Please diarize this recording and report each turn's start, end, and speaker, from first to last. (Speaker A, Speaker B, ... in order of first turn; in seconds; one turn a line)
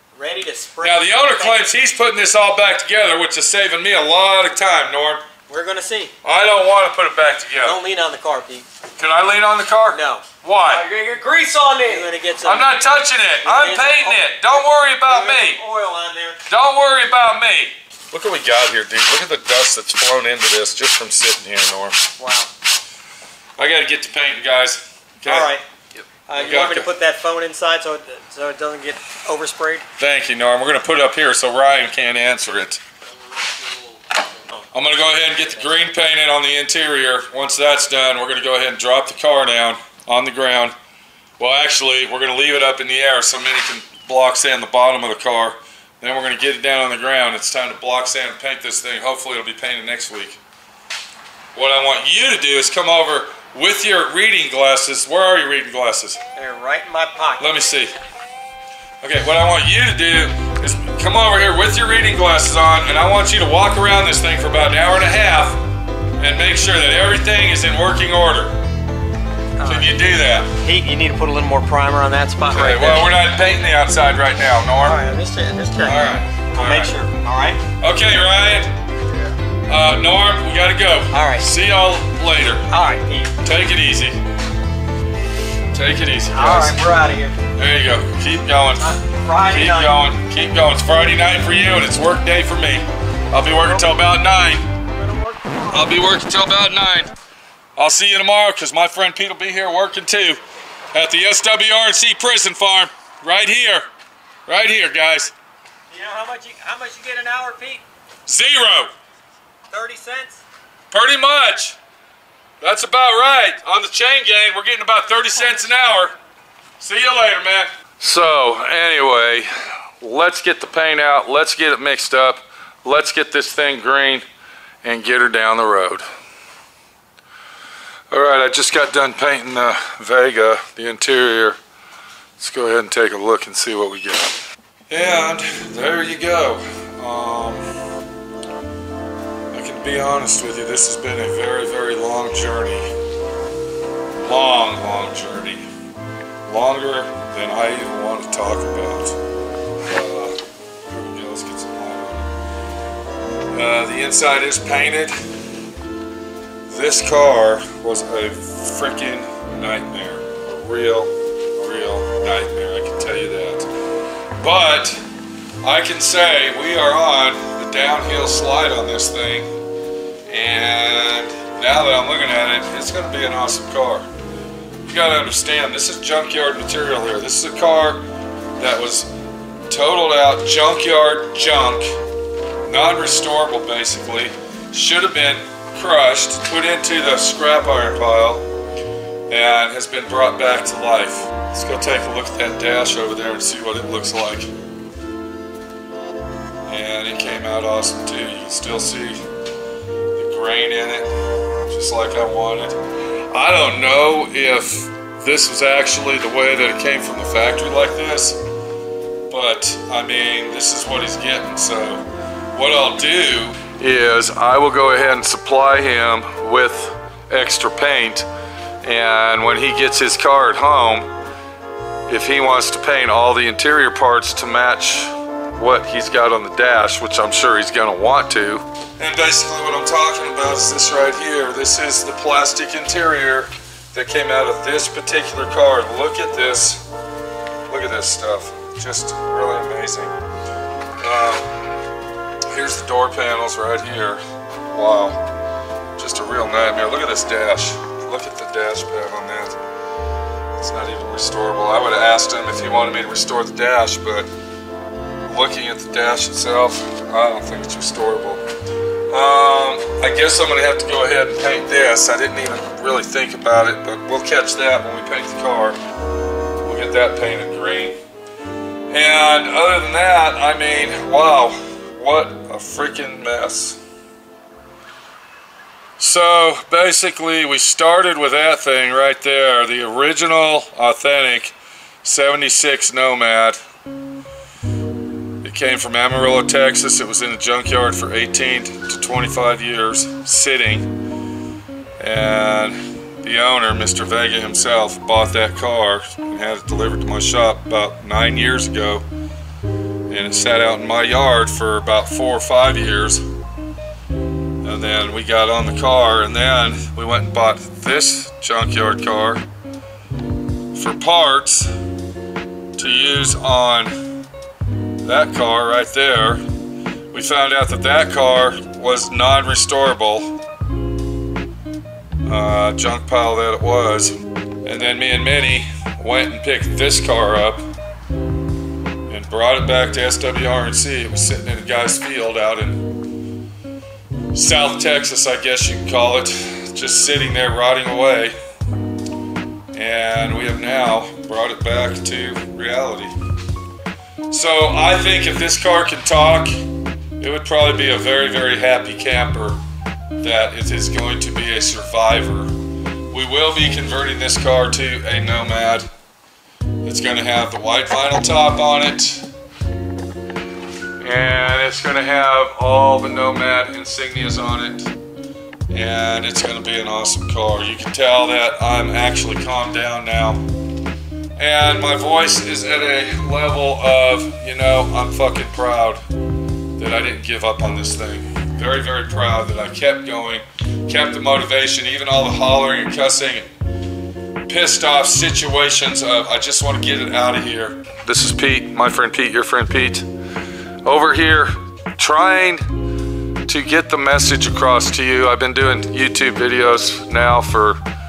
Speaker A: 0.1-1.7
Speaker B: 0.8-5.2
Speaker A: 5.5-6.1
Speaker B: 6.2-7.8
Speaker A: 7.6-8.7
Speaker B: 9.0-10.9
Speaker A: 9.9-10.2
Speaker C: 10.7-12.1
Speaker A: 11.8-12.7
Speaker B: 12.4-15.6
Speaker A: 13.4-16.4
Speaker B: 16.5-22.1
Speaker A: 22.2-22.5
Speaker B: 23.6-25.6
Speaker A: 25.2-25.6
Speaker A: 26.3-29.9
Speaker B: 26.3-26.9
Speaker B: 30.0-32.8
Speaker C: 33.0-35.9
Speaker B: 34.7-40.8
Speaker B: 41.4-50.4
Speaker B: 51.5-56.2
Speaker A: 56.4-57.6
Speaker B: 57.4-57.9
Speaker B: 59.0-65.6
Speaker B: 66.2-68.5
Speaker A: 69.6-69.9
Speaker B: 69.7-70.5
Speaker A: 70.6-73.1
Speaker B: 72.5-75.0
Speaker A: 74.8-77.6
Speaker B: 75.8-76.9
Speaker B: 77.8-78.7
Speaker B: 79.7-82.7
Speaker A: 81.1-81.5
Speaker A: 82.7-83.3
Speaker B: 83.4-84.2
Speaker B: 85.7-86.8
Speaker A: 86.3-87.4
Speaker B: 87.5-88.9
Speaker A: 88.8-90.0
Speaker B: 89.4-94.7
Speaker A: 95.0-95.9
Speaker B: 95.7-97.1
Speaker B: 97.8-100.4
Speaker B: 100.9-103.9
Speaker B: 104.5-105.3
Speaker A: 105.9-107.8
Speaker B: 108.3-108.9
Speaker A: 109.7-110.4
Speaker B: 110.9-111.8
Speaker B: 112.6-116.2
Speaker B: 116.8-124.2
Speaker B: 124.8-126.0
Speaker B: 128.1-131.6
Speaker B: 132.4-134.3
Speaker B: 134.9-137.7
Speaker B: 139.5-142.9
Speaker B: 144.2-145.6
Speaker B: 146.5-149.2
Speaker B: 149.8-152.3
Speaker B: 153.5-155.1
Speaker B: 156.7-163.7
Speaker B: 164.4-165.0
Speaker B: 165.6-169.5
Speaker B: 170.3-174.1
Speaker B: 174.9-178.0
Speaker B: 178.6-179.1
Speaker B: 179.7-182.0
Speaker B: 182.7-188.5
Speaker B: 189.3-194.5
Speaker B: 196.7-199.2
Speaker B: 200.2-202.8
Speaker B: 203.3-208.4
Speaker B: 209.3-212.0
Speaker B: 212.6-218.3
Speaker B: 218.8-221.1
Speaker B: 222.1-236.8
Speaker B: 237.7-240.2
Speaker B: 241.0-241.8
Speaker B: 242.5-245.2
Speaker B: 246.0-249.6
Speaker B: 250.6-254.3
Speaker B: 255.2-258.4
Speaker B: 259.1-265.8
Speaker B: 266.6-268.0
Speaker B: 268.9-273.8
Speaker B: 276.0-283.6
Speaker B: 285.4-290.9
Speaker B: 292.0-299.1
Speaker B: 300.1-303.2
Speaker B: 304.6-309.4
Speaker B: 310.7-311.7
Speaker B: 312.8-313.9
Speaker B: 315.0-316.4
Speaker B: 317.1-320.4
Speaker B: 322.2-324.1
Speaker B: 324.6-327.6
Speaker B: 329.1-333.0
Speaker B: 334.3-338.3
Speaker B: 339.7-343.1
Speaker B: 344.3-346.6
Speaker B: 347.2-349.6
Speaker B: 350.2-352.5
Speaker B: 353.1-355.9
Speaker B: 356.8-359.3
Speaker B: 361.0-364.9
Speaker B: 365.7-370.4
Speaker B: 371.4-376.0
Speaker B: 376.8-383.5
Speaker B: 384.5-390.1
Speaker B: 390.8-392.7
Speaker B: 393.5-397.8